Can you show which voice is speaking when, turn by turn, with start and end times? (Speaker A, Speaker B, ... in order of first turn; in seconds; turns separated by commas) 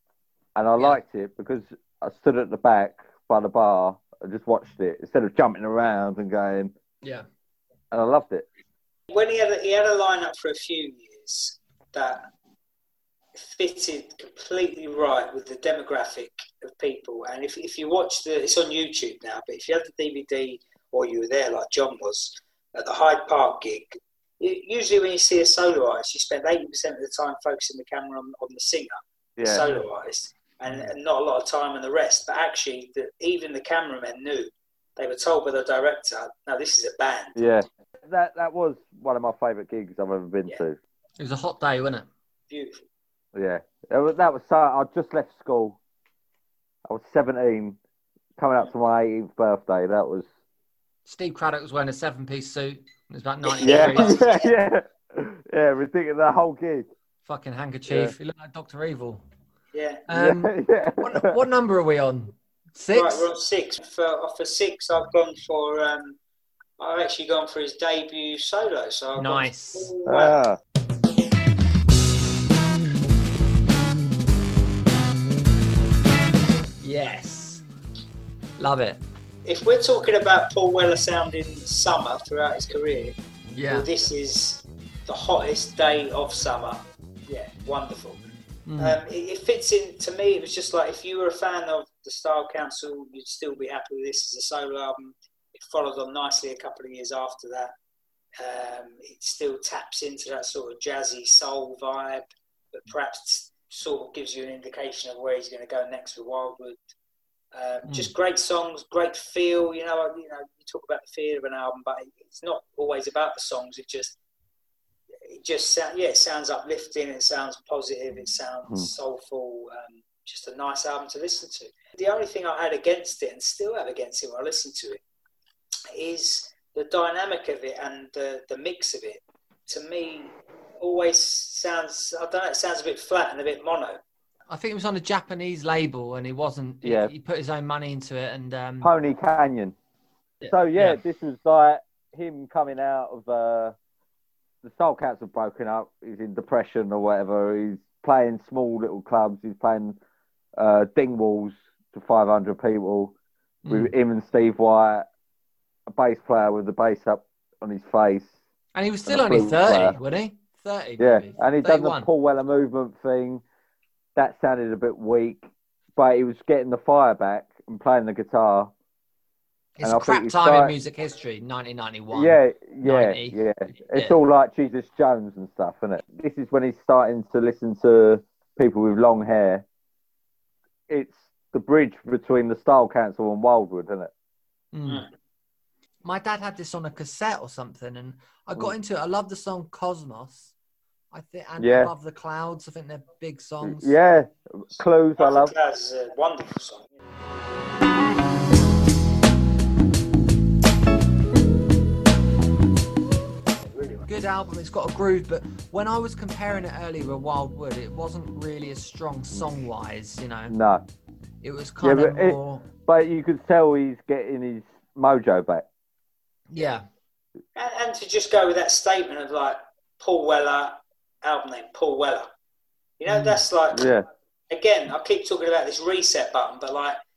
Speaker A: 0.5-6.7, Speaker A: 7.9-8.4, Speaker B: 9.1-12.3, Speaker B: 13.3-37.5, Speaker A: 29.4-29.7, Speaker A: 37.4-40.8, Speaker C: 41.2-42.1, Speaker B: 42.5-42.8, Speaker A: 43.3-45.8, Speaker A: 46.9-47.8, Speaker A: 48.4-50.3, Speaker C: 51.0-54.2, Speaker B: 53.5-54.5, Speaker A: 53.6-56.9, Speaker C: 57.2-59.2, Speaker A: 57.9-58.1, Speaker B: 59.7-60.0, Speaker C: 60.1-63.3, Speaker A: 60.1-61.4, Speaker B: 62.9-66.2, Speaker B: 66.8-70.3, Speaker C: 69.2-69.9, Speaker A: 70.0-70.6, Speaker C: 76.8-77.6, Speaker C: 78.6-79.0, Speaker B: 79.4-83.2, Speaker C: 83.5-83.9, Speaker B: 83.7-97.7, Speaker C: 88.7-89.0, Speaker B: 98.4-106.8, Speaker B: 107.5-114.2, Speaker B: 115.2-125.0, Speaker B: 125.9-134.0, Speaker C: 134.5-138.9, Speaker A: 136.8-137.1, Speaker A: 138.8-139.7, Speaker C: 140.4-141.0, Speaker A: 140.4-143.8, Speaker A: 144.6-150.0, Speaker A: 150.6-153.1, Speaker C: 153.6-153.9, Speaker A: 153.7-155.1, Speaker A: 155.9-158.3, Speaker C: 158.7-162.1, Speaker A: 159.1-160.0, Speaker A: 161.0-163.4, Speaker A: 164.2-168.7, Speaker C: 169.8-173.4, Speaker A: 169.8-170.7, Speaker A: 172.1-179.6, Speaker C: 173.9-174.2, Speaker A: 180.9-184.1, Speaker C: 184.7-185.1, Speaker C: 186.0-190.5, Speaker C: 191.1-193.9, Speaker A: 191.6-191.9, Speaker A: 193.6-195.5, Speaker B: 195.2-196.9, Speaker C: 204.1-210.5, Speaker A: 210.5-210.8, Speaker C: 211.4-212.7, Speaker A: 211.8-215.7, Speaker C: 216.5-216.8, Speaker B: 217.5-222.3, Speaker B: 223.0-223.9, Speaker C: 223.1-223.4, Speaker A: 223.7-224.0, Speaker B: 224.5-227.0